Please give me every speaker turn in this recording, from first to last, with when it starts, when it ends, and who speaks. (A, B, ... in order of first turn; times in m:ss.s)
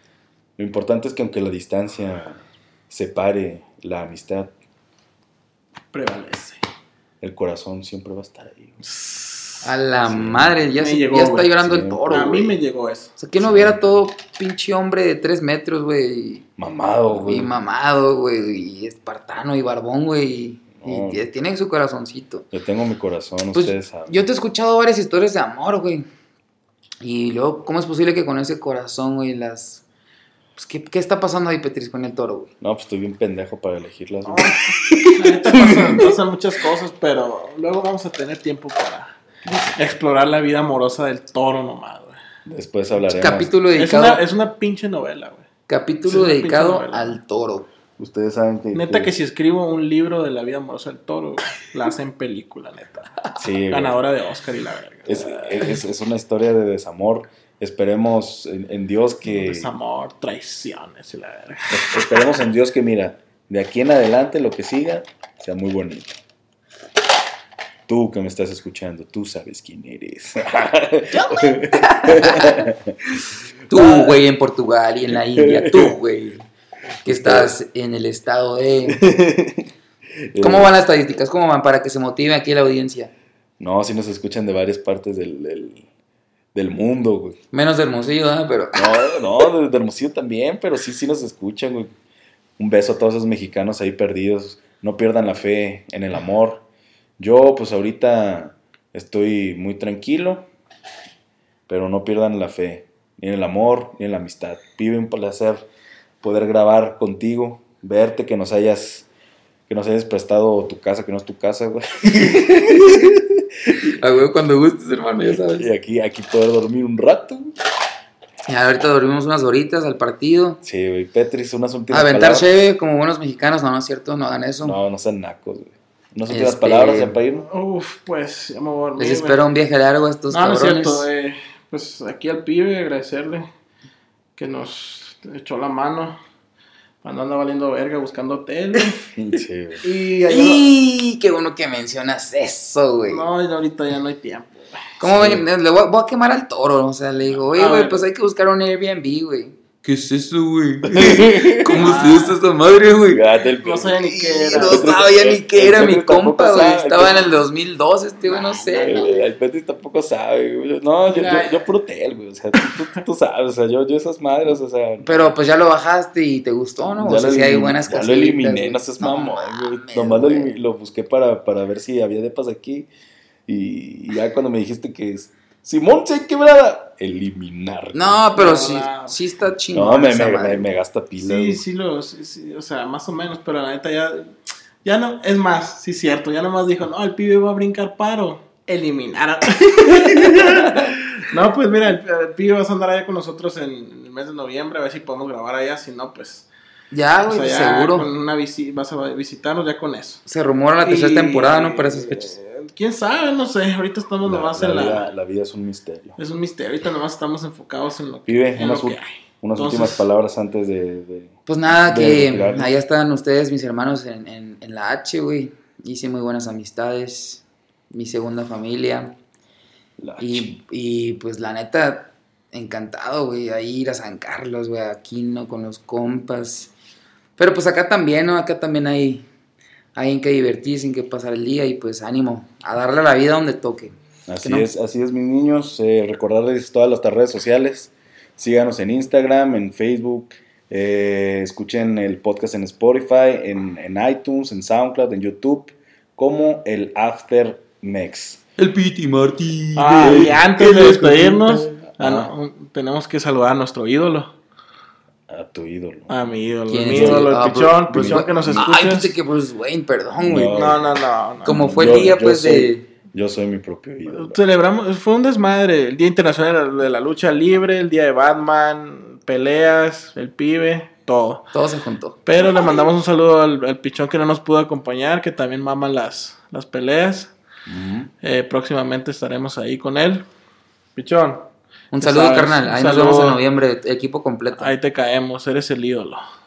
0:00.6-0:04.5 A
0:05.9-0:06.6 B
0:07.2-0:08.8 A
0:08.9-0:09.6 B
0:09.6-0:12.6 C
0:10.1-0:10.6 A
0:10.8-0:11.6 B
0:11.6-0:12.4 A
0:12.1-0:13.1 B
0:13.2-0:16.5 C
0:13.4-0:14.0 A
0:16.6-0:17.5 A
0:17.1-0:22.5 C
0:20.8-0:21.3 A
0:22.5-0:24.2 A
0:23.5-0:26.1 C
0:27.0-0:29.8 C
0:30.6-0:32.5 C
0:32.6-0:34.6 A
0:34.3-0:39.2 B
0:34.9-0:36.0 C
0:35.5-0:36.0 A
0:39.5-0:39.7 A
0:39.8-0:42.2 B
0:42.5-0:43.5 A
0:43.1-0:44.2 C
0:43.7-0:45.5 B
0:45.7-0:47.7 C
0:46.1-0:47.2 B
0:48.0-0:49.1 A
0:48.7-0:55.8 B
0:53.4-0:54.0 A
0:55.1-0:59.7 A
0:59.3-1:02.2 B
1:01.7-1:06.2 A
1:07.9-1:12.9 A
1:11.1-1:12.7 C
1:13.7-1:16.4 C
1:13.7-1:14.2 A
1:15.1-1:16.0 A
1:17.0-1:17.6 A
1:17.0-1:19.0 C
1:18.9-1:19.7 A
1:20.3-1:20.7 A
1:20.4-1:23.1 C
1:23.6-1:25.9 A
1:26.5-1:27.4 A
1:27.5-1:29.2 C
1:28.8-1:31.9 A
1:32.6-1:36.6 A
1:37.2-1:40.5 A
1:41.7-1:45.7 A
1:46.2-1:49.1 A
1:49.7-1:54.0 A
1:53.7-1:55.7 C
1:55.4-1:57.5 A
1:58.5-2:00.6 C
2:00.6-2:02.5 A
2:01.9-2:04.8 C
2:04.6-2:07.5 A
2:06.3-2:07.2 C
2:07.5-2:09.5 B
2:09.0-2:11.1 C
2:10.3-2:13.5 B
2:14.4-2:16.2 B
2:17.0-2:19.1 B
2:19.2-2:19.8 A
2:19.8-2:20.6 B
2:20.2-2:23.2 C
2:23.1-2:24.8 B
2:25.0-2:33.2 C
2:25.0-2:25.4 A
2:27.5-2:28.1 B
2:30.9-2:31.9 A
2:31.7-2:32.4 B
2:33.1-2:37.3 A
2:33.6-2:34.9 B
2:34.0-2:39.2 C
2:38.3-2:38.8 B
2:38.7-2:45.3 A
2:41.1-2:41.6 B
2:45.0-2:50.5 C
2:46.9-2:52.9 A
2:53.5-2:58.2 A
2:57.9-3:00.7 C
2:58.3-2:59.2 B
2:59.7-3:01.6 A
3:01.2-3:04.3 B
3:04.8-3:16.5 B
3:10.3-3:10.9 A
3:16.9-3:18.1 C
3:17.3-3:20.2 B
3:20.3-3:22.4 C
3:20.8-3:25.1 B
3:24.2-3:26.2 A
3:26.2-3:30.0 B
3:28.3-3:32.8 A
3:31.5-3:39.2 C
3:40.0-3:40.5 A
3:40.2-3:46.7 C
3:47.4-3:49.3 C
3:50.0-3:54.7 C
3:54.3-4:08.4 A
4:08.6-4:11.6 C
4:09.8-4:14.3 B
4:10.0-4:10.9 A
4:11.8-4:12.3 A
4:15.3-4:16.1 A
4:16.1-4:19.2 B
4:16.7-4:20.8 C
4:16.8-4:17.3 A
4:17.9-4:18.7 A
4:20.2-4:20.9 A
4:20.5-4:21.6 B
4:21.4-4:22.9 C
4:21.4-4:24.4 A
4:24.1-4:31.4 B
4:31.5-4:32.2 C
4:32.3-4:37.3 B
4:37.7-4:38.1 A
4:38.2-4:40.3 B
4:41.0-4:43.4 B
4:41.9-4:44.7 C
4:44.6-4:46.2 B